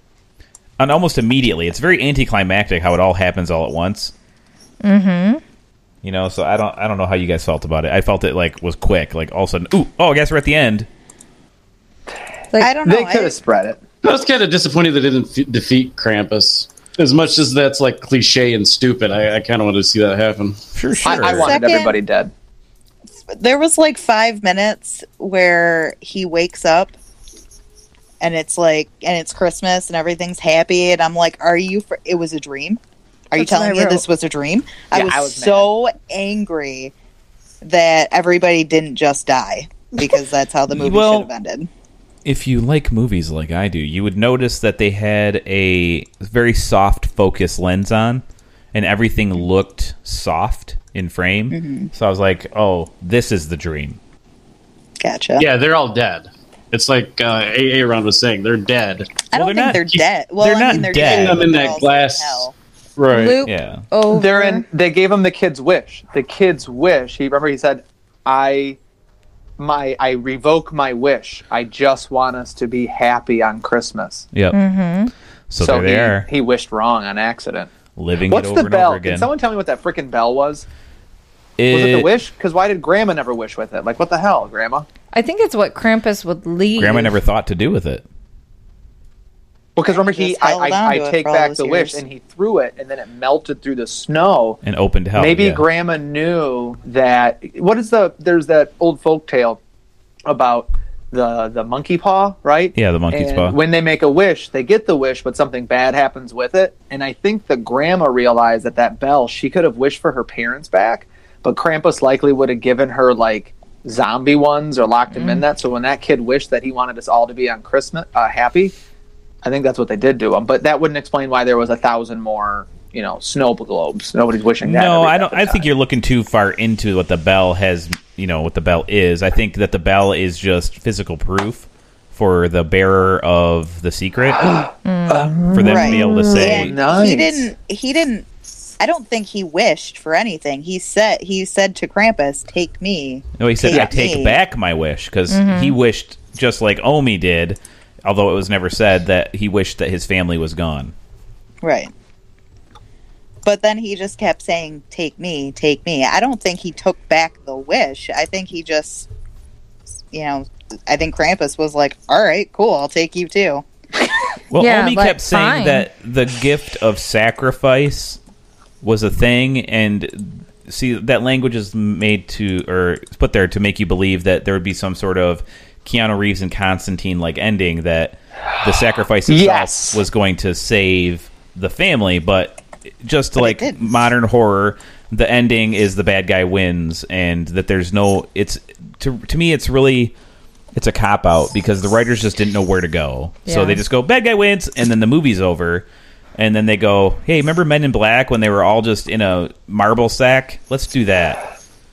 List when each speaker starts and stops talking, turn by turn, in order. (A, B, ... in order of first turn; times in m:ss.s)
0:00.8-0:04.1 A
0:04.8-0:05.4 B
0:06.0-0:10.9 A
0:12.6-0:13.3 C
0:12.8-0:13.8 D
0:14.0-0:20.6 E
0:20.7-0:21.5 A
0:21.0-0:22.0 C
0:21.0-0:22.3 D
0:23.3-0:26.9 C
0:28.2-0:32.8 C
0:33.3-0:36.9 C
0:33.4-0:34.0 B
0:34.9-0:35.7 D
0:37.6-0:41.7 C
0:40.8-0:41.3 A
0:42.2-0:48.2 A
0:48.7-0:54.0 A
0:51.5-0:51.9 C
0:55.0-0:55.4 C
0:55.4-0:59.1 E
0:59.3-1:02.5 C
0:59.3-0:59.8 A
1:00.4-1:01.5 A
1:00.7-1:03.4 E
1:03.1-1:04.6 C
1:03.4-1:03.8 A
1:04.1-1:08.8 D
1:09.6-1:14.2 D
1:14.3-1:14.6 A
1:14.5-1:15.1 B
1:15.5-1:16.2 A
1:15.6-1:17.7 D
1:18.0-1:19.3 A
1:18.3-1:20.6 D
1:21.6-1:22.1 A
1:21.7-1:24.9 D
1:25.1-1:27.2 B
1:26.8-1:28.0 A
1:29.8-1:34.6 D
1:29.9-1:32.0 C
1:34.6-1:35.6 A
1:35.1-1:39.6 D
1:40.2-1:58.7 D
1:42.7-1:43.6 A
1:55.1-1:55.4 B
1:59.4-2:05.7 D
2:04.6-2:14.4 A
2:14.4-2:17.4 D
2:14.8-2:15.3 B
2:15.5-2:16.8 A
2:15.6-2:18.2 C
2:18.8-2:24.4 C
2:23.4-2:30.9 A
2:23.7-2:23.9 D
2:25.3-2:25.8 B
2:31.6-2:31.9 C
2:33.4-2:39.1 C
2:40.1-2:43.6 C
2:44.5-2:48.2 A
2:44.6-2:45.9 B
2:48.8-3:10.1 A
2:59.3-3:00.0 D
3:03.4-3:03.8 C
3:10.7-3:15.8 A
3:13.4-3:13.8 B
3:16.4-3:21.4 A